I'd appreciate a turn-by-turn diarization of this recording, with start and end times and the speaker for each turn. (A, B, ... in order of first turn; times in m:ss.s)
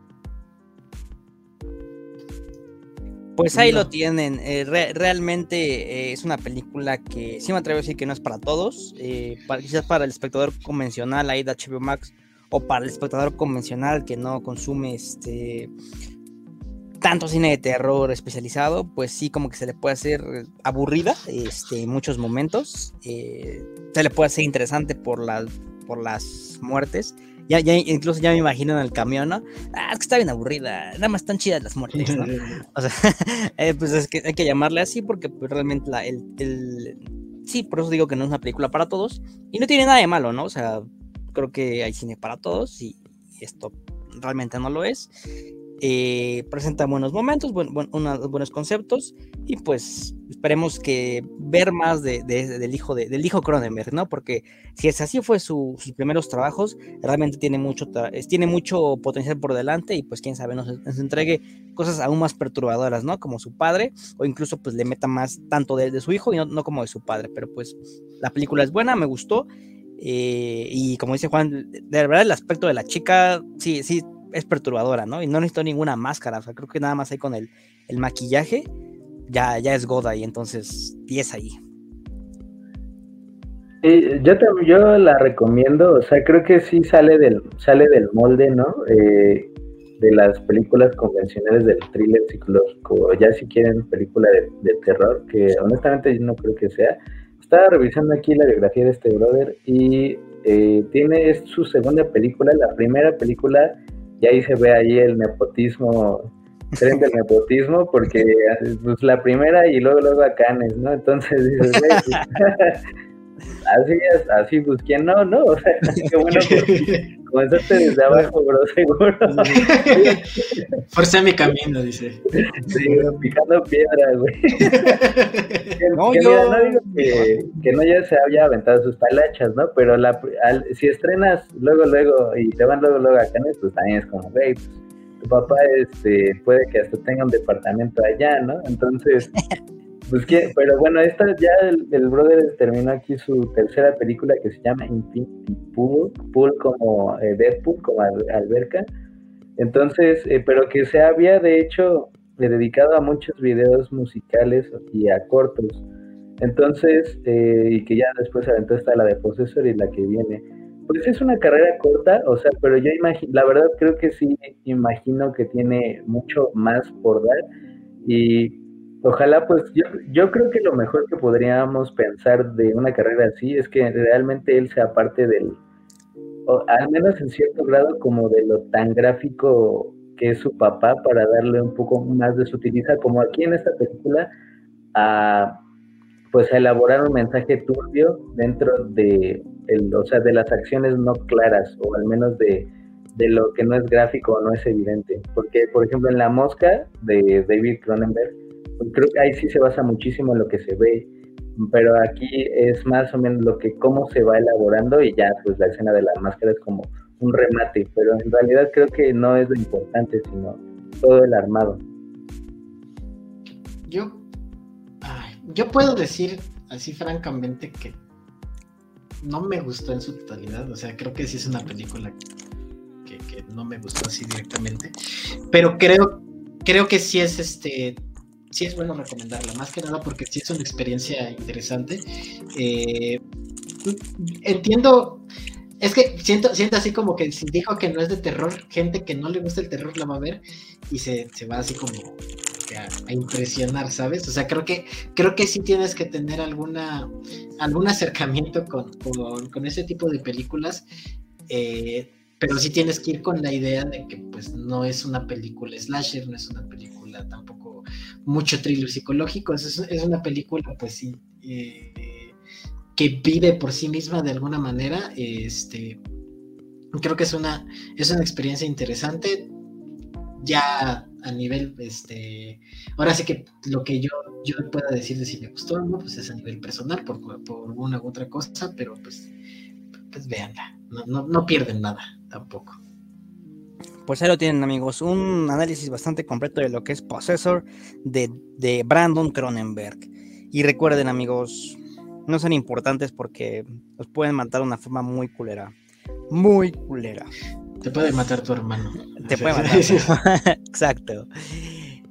0:03.4-0:15.7 A
0:03.5-0:03.9 B
0:17.0-0:45.1 A
0:31.9-0:32.6 B
0:45.8-1:09.5 A
1:10.0-1:18.7 A
1:19.3-1:21.6 A
1:23.8-1:52.8 C
1:51.7-1:52.2 A
1:53.6-2:00.8 C
1:56.4-1:57.0 B
1:59.5-2:00.2 B
2:00.9-2:03.2 B
2:02.3-2:05.0 C
2:02.8-2:03.2 A
2:04.6-2:05.7 B
2:05.7-2:19.3 C
2:06.0-2:07.3 A
2:20.1-2:28.9 C
2:29.6-2:35.8 C
2:36.4-2:47.4 C
2:48.0-2:55.6 C
2:56.5-3:04.3 C
3:04.9-3:05.6 C
3:06.3-3:31.8 C
3:33.9-3:34.2 B
3:35.0-3:38.0 B
3:39.2-3:42.2 B
3:43.0-3:44.9 B
3:45.5-3:53.2 B
3:53.8-3:55.3 B
3:55.8-4:10.9 B
4:11.5-4:22.3 B
4:23.0-4:26.0 B
4:26.9-4:29.5 B
4:30.4-4:39.3 B
4:40.1-4:42.8 B
4:44.0-4:55.7 A
4:56.3-4:57.3 A
4:57.8-5:00.1 B
4:59.2-5:02.0 A